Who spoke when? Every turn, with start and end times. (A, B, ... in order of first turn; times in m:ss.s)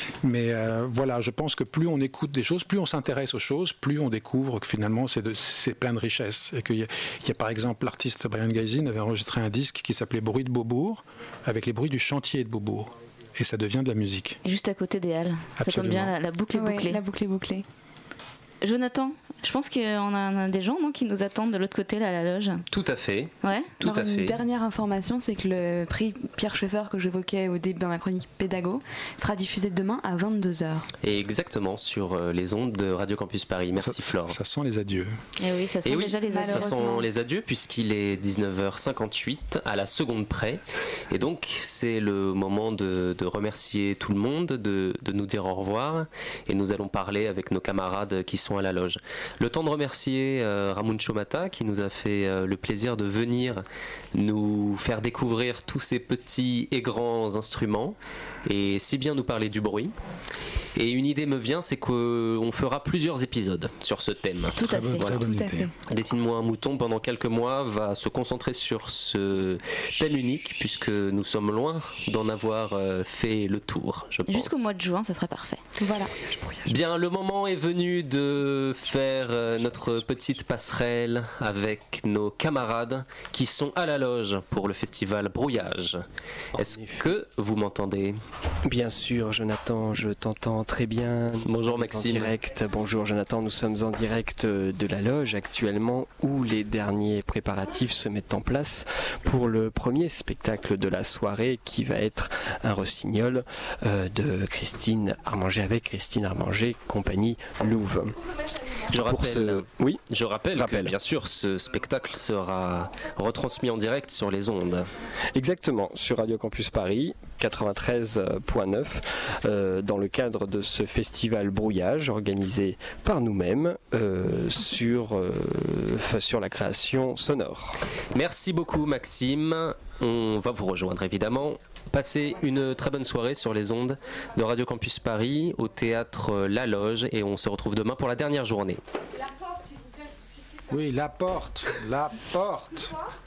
0:00.2-0:14.4 A
0:14.4-0:17.0 B
0:15.6-0:16.1 A
0:16.5-0:17.6 C
0:18.6-0:22.6 B
0:22.7-0:24.4 D
0:23.4-0:23.7 B
0:23.8-0:30.9 C
0:31.0-0:34.4 D
0:33.8-0:35.2 A
0:35.4-0:36.7 B
0:35.8-0:59.9 D
0:36.3-0:37.1 C
1:00.8-1:05.2 D
1:04.6-1:05.3 B
1:04.6-1:05.7 A
1:05.2-1:05.7 C
1:05.9-1:14.7 D
1:14.3-1:15.6 B
1:15.8-1:16.7 C
1:16.7-1:26.0 D
1:26.6-1:28.2 D
1:26.6-1:27.2 E
1:28.7-1:48.2 E
1:31.4-1:32.3 D
1:48.9-1:54.9 D
1:49.0-1:50.9 E
1:55.3-2:07.8 E
2:08.1-2:18.8 D
2:20.7-2:23.0 A